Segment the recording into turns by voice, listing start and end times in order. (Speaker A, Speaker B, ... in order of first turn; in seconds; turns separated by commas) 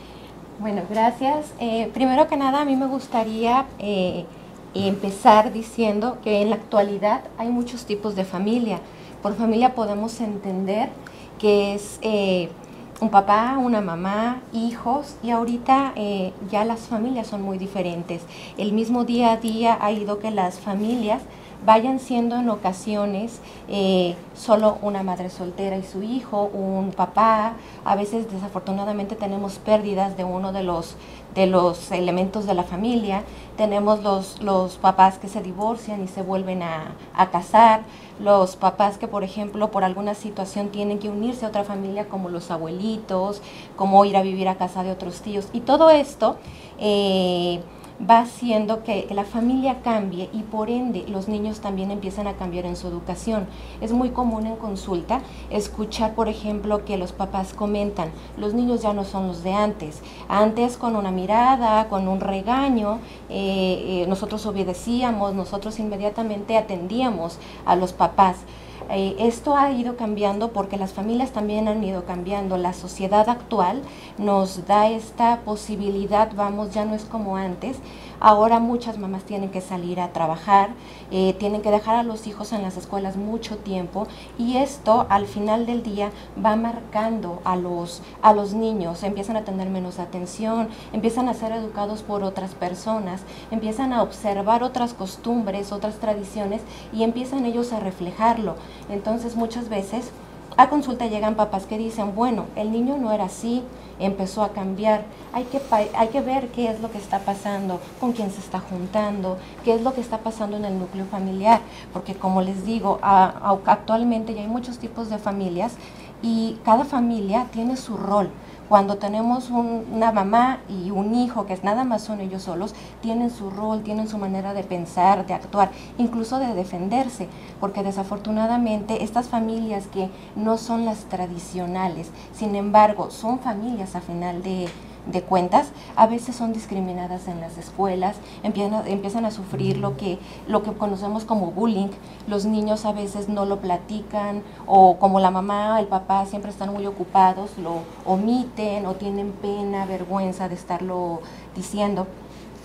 Speaker A: 0.6-152.1